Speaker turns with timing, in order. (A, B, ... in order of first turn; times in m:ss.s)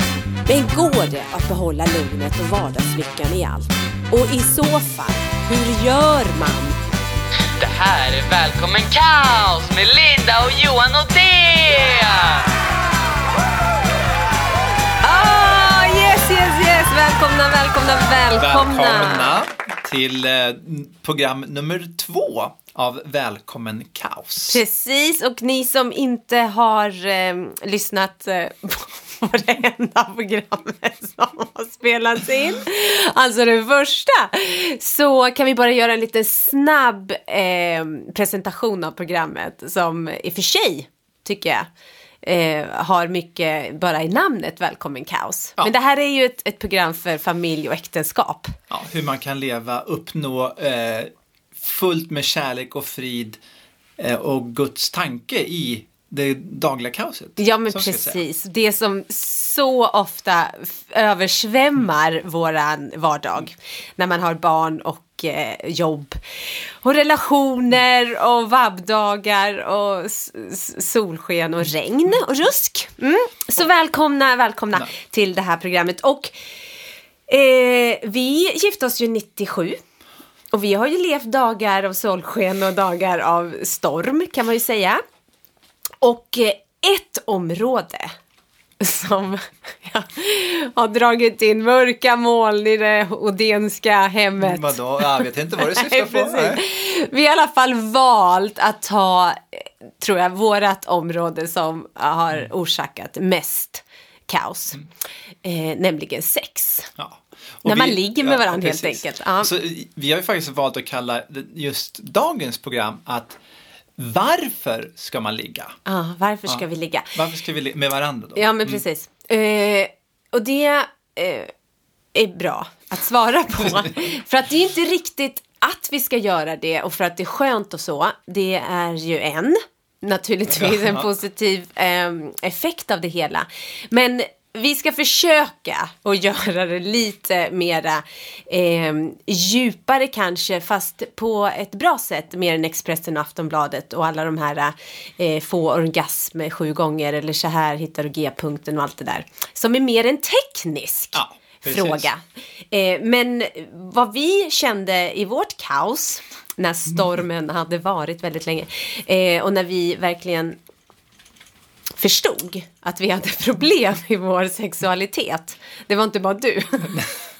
0:00.5-0:06.8 A
0:07.6-0:12.5 B
0:15.0-0:19.3 A
0:18.4-0:24.6 C
0:24.5-0:41.7 A
0:42.2-0:48.6 A
0:48.7-0:53.4 C
0:54.0-0:58.2 C
0:57.4-1:06.2 A
1:06.8-1:16.3 A
1:17.3-1:19.8 A
1:20.5-1:25.0 A
1:26.0-1:28.1 A
1:28.8-1:44.8 A
1:34.4-1:36.6 C
1:45.4-1:46.9 A
1:47.0-1:53.4 C
1:47.6-1:49.5 A
1:54.0-1:55.8 C
1:55.8-1:57.1 A
1:56.5-1:58.8 C
1:58.4-2:01.5 A
2:02.1-2:40.6 A
2:10.6-2:11.1 C
2:31.1-2:32.1 C
2:42.0-2:47.0 A